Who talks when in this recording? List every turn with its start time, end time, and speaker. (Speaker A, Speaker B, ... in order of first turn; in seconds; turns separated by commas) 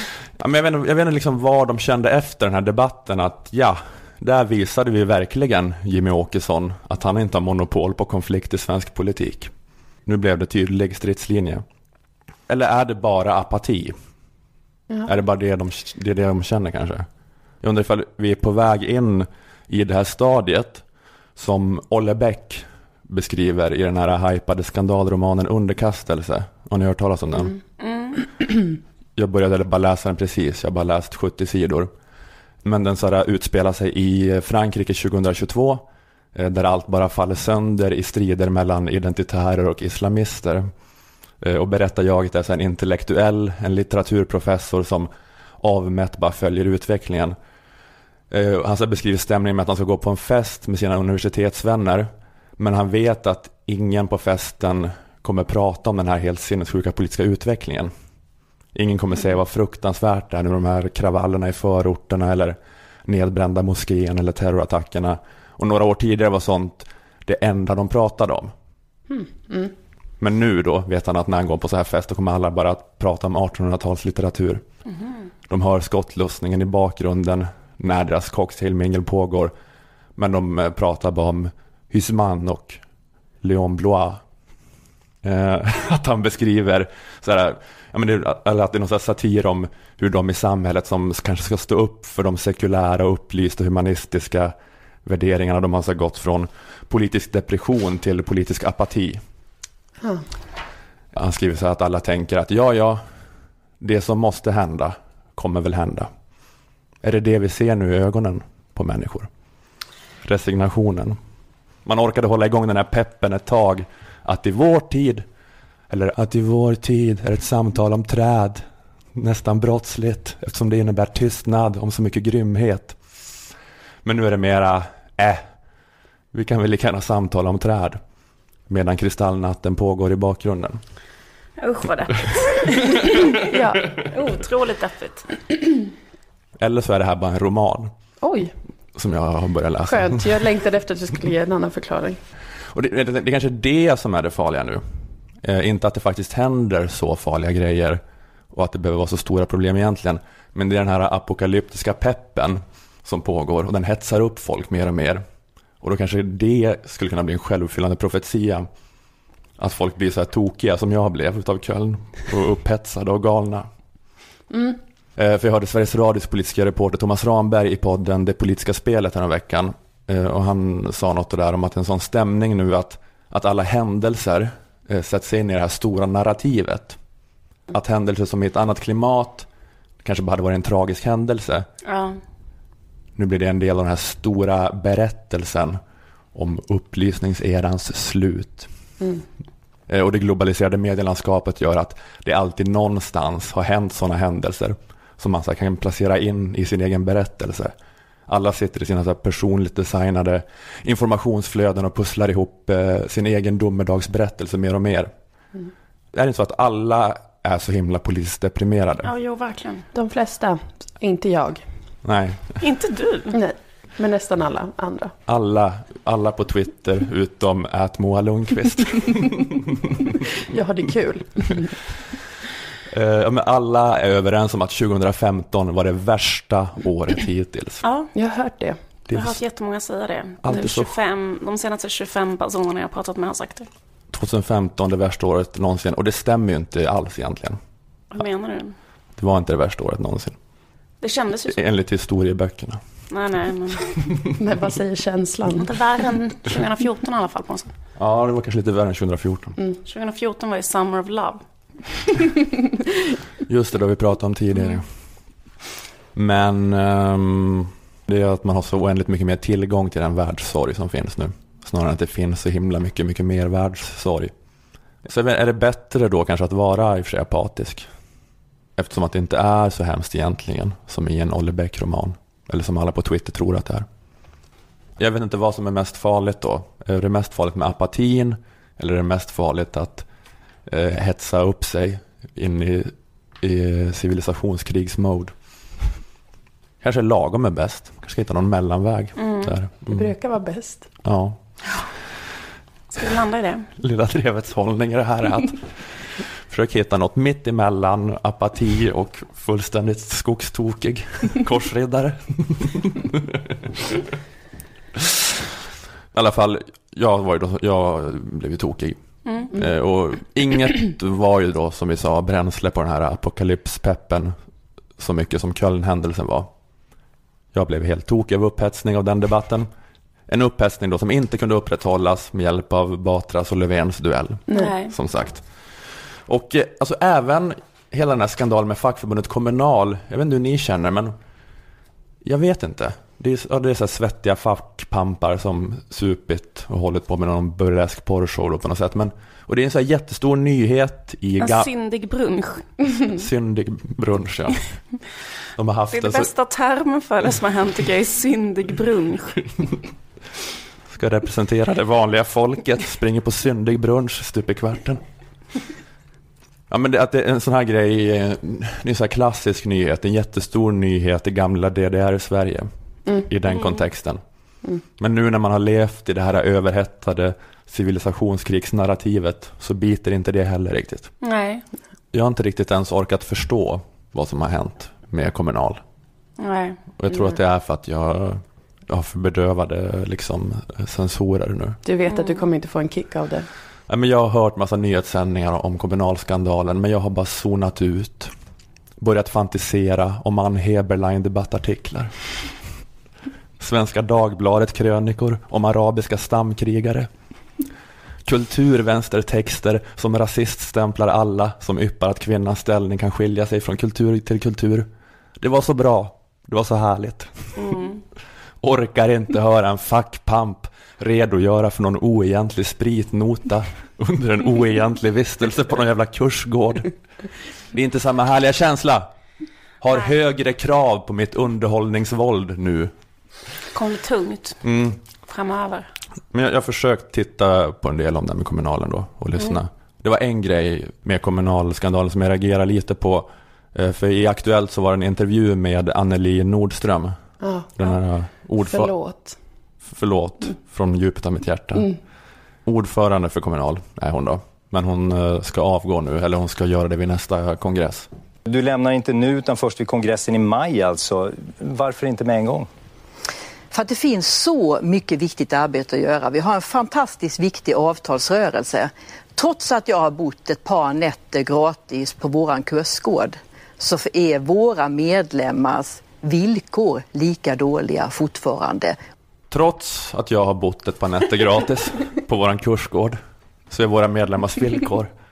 Speaker A: 0.4-9.5, Speaker A: 10.1-11.6, Speaker A: 12.5-13.9, Speaker A: 15.0-17.1, Speaker A: 17.6-20.8, Speaker A: 21.4-27.5, Speaker B: 27.8-28.2, Speaker A: 29.2-31.9, Speaker A: 32.6-35.8, Speaker A: 36.3-40.7, Speaker A: 41.4-45.1, Speaker A: 45.6-47.4, Speaker A: 48.3-57.9, Speaker A: 58.7-68.5, Speaker C: 69.1-69.7, Speaker A: 70.2-74.6, Speaker A: 75.5-79.5, Speaker A: 80.2-82.8, Speaker A: 83.4-84.2, Speaker A: 85.2-94.5, Speaker A: 95.0-99.2, Speaker A: 101.1-103.0, Speaker A: 103.8-106.1, Speaker A: 107.0-109.3, Speaker A: 110.2-111.2, Speaker A: 111.8-115.2, Speaker A: 115.9-118.6, Speaker A: 119.1-123.0, Speaker A: 124.0-125.5, Speaker A: 126.3-128.0, Speaker A: 128.7-130.8, Speaker B: 131.6-135.3, Speaker C: 133.5-133.8, Speaker A: 136.6-137.9, Speaker C: 138.2-138.5, Speaker A: 138.9-140.2, Speaker C: 139.9-142.2, Speaker A: 142.7-144.8, Speaker A: 145.4-148.0, Speaker A: 148.5-155.2, Speaker A: 155.8-158.7, Speaker A: 159.6-163.7, Speaker C: 164.5-164.8, Speaker A: 165.2-177.0, Speaker A: 177.7-179.5, Speaker A: 180.0-181.7, Speaker B: 181.8-182.2, Speaker A: 183.2-185.8, Speaker A: 186.3-188.7, Speaker A: 189.9-197.8, Speaker A: 198.3-205.1, Speaker A: 206.1-209.1, Speaker B: 209.0-209.9, Speaker C: 209.9-211.6, Speaker A: 212.0-212.6, Speaker B: 212.6-213.4, Speaker C: 213.3-215.1, Speaker A: 215.3-219.5, Speaker C: 220.5-221.8, Speaker A: 222.9-227.8, Speaker B: 227.8-228.1, Speaker C: 228.1-228.8, Speaker A: 229.1-229.4, Speaker B: 229.1-233.7, Speaker A: 230.4-230.9, Speaker A: 234.1-237.6, Speaker B: 238.1-238.8, Speaker A: 239.2-240.4, Speaker B: 241.0-241.6, Speaker A: 241.5-242.8, Speaker B: 243.1-243.9, Speaker C: 244.4-245.7, Speaker B: 245.6-247.7, Speaker A: 248.0-249.5, Speaker B: 249.9-251.4, Speaker A: 253.5-254.9, Speaker A: 256.1-264.3, Speaker A: 265.0-267.9, Speaker A: 268.8-273.9, Speaker A: 275.0-280.1, Speaker A: 280.6-285.3, Speaker A: 286.8-290.1, Speaker B: 289.2-289.5, Speaker C: 289.9-290.9, Speaker A: 291.0-291.4, Speaker B: 292.9-293.7, Speaker A: 293.8-303.4, Speaker A: 306.1-309.0, Speaker B: 309.2-309.5, Speaker A: 309.5-314.4, Speaker A: 315.0-316.5, Speaker A: 317.5-319.7, Speaker A: 320.3-331.1, Speaker C: 324.5-324.7, Speaker B: 324.5-324.9, Speaker A: 332.2-341.7, Speaker B: 341.4-342.7, Speaker A: 343.1-344.7, Speaker A: 345.6-346.3, Speaker B: 345.9-349.5, Speaker A: 350.9-355.0, Speaker A: 356.7-362.7, Speaker A: 363.2-364.2, Speaker B: 363.5-363.8, Speaker A: 365.0-371.1, Speaker B: 371.2-371.6, Speaker A: 372.1-375.8, Speaker B: 376.4-377.4, Speaker A: 377.0-381.8, Speaker C: 381.9-383.5, Speaker B: 382.1-382.4, Speaker A: 383.9-388.3, Speaker A: 389.0-392.1, Speaker A: 393.6-397.1, Speaker A: 398.2-404.9, Speaker A: 405.4-407.5, Speaker B: 407.6-408.0, Speaker A: 408.6-416.9, Speaker A: 417.7-419.1, Speaker A: 419.8-422.9, Speaker B: 423.7-424.6, Speaker A: 424.6-425.0, Speaker B: 425.2-425.9, Speaker A: 426.3-438.9, Speaker C: 437.4-437.7, Speaker C: 438.6-439.4, Speaker A: 439.9-441.9, Speaker A: 442.6-448.1, Speaker D: 448.4-452.7, Speaker E: 453.7-469.0, Speaker A: 469.5-473.2, Speaker A: 473.7-475.1